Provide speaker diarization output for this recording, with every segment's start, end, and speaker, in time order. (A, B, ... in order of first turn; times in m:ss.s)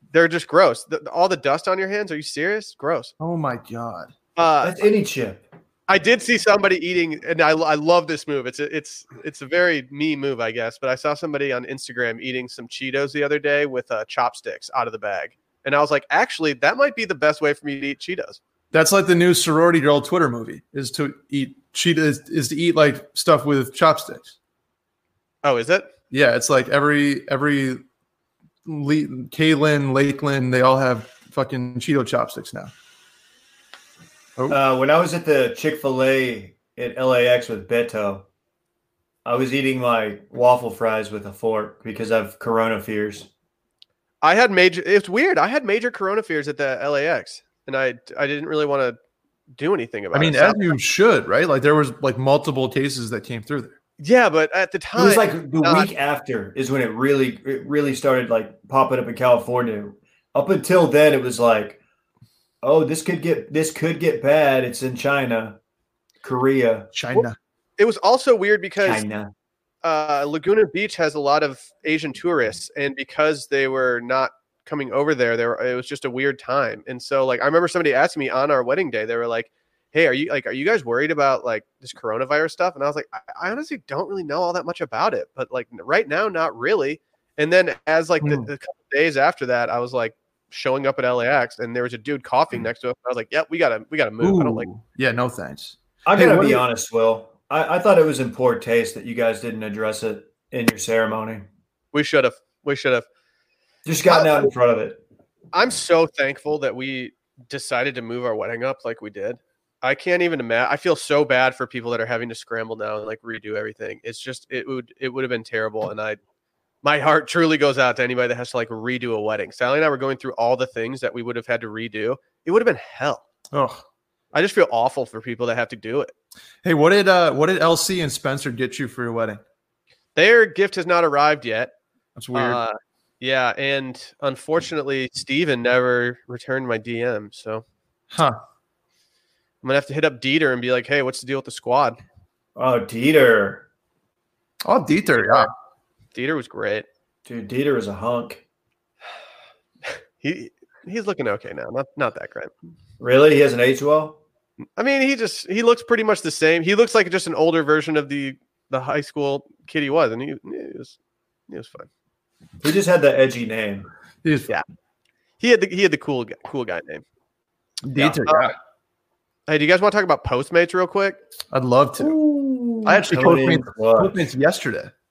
0:00.1-0:03.1 A
0:03.2-0:04.1 B
0:04.4-0:04.8 A
0:04.6-0:05.4 C
0:05.9-0:18.4 A
0:18.7-0:24.4 B
0:25.4-0:25.9 A
0:26.1-0:27.8 B
0:28.6-0:32.7 B
0:34.5-0:38.2 C
0:39.2-0:43.3 C
0:44.2-0:49.0 A
0:49.6-0:50.8 A
0:50.1-0:53.8 B
0:54.0-0:55.9 A
0:55.0-1:01.8 C
1:02.6-1:05.6 C
1:06.2-1:06.9 C
1:06.9-1:07.4 B
1:07.8-1:09.0 A
1:08.8-1:09.3 C
1:09.8-1:34.7 A
1:28.2-1:28.5 B
1:34.2-1:36.6 B
1:36.1-1:41.4 C
1:41.9-1:43.1 A
1:43.8-1:45.0 C
1:44.1-1:44.5 A
1:45.5-1:56.2 A
1:56.8-2:03.2 A
2:03.5-2:03.8 B
2:04.3-2:06.1 A
2:06.6-2:09.4 B
2:10.2-2:11.7 A
2:12.2-2:12.6 B
2:12.3-2:17.6 A
2:18.1-2:18.4 B
2:19.6-2:22.0 A
2:22.6-2:23.6 C
2:24.6-2:25.5 B
2:26.2-2:26.9 A
2:27.3-2:28.4 C
2:30.2-2:32.5 A
2:33.0-2:34.2 C
2:34.8-2:41.0 A
2:41.5-2:41.9 A
2:42.6-2:43.9 C
2:44.2-2:44.5 B
2:45.4-2:47.0 A
2:47.8-2:48.6 B
2:48.0-2:48.6 A
2:49.5-2:51.2 A
2:51.5-2:52.2 B
2:52.0-2:54.2 C
2:52.8-2:54.9 B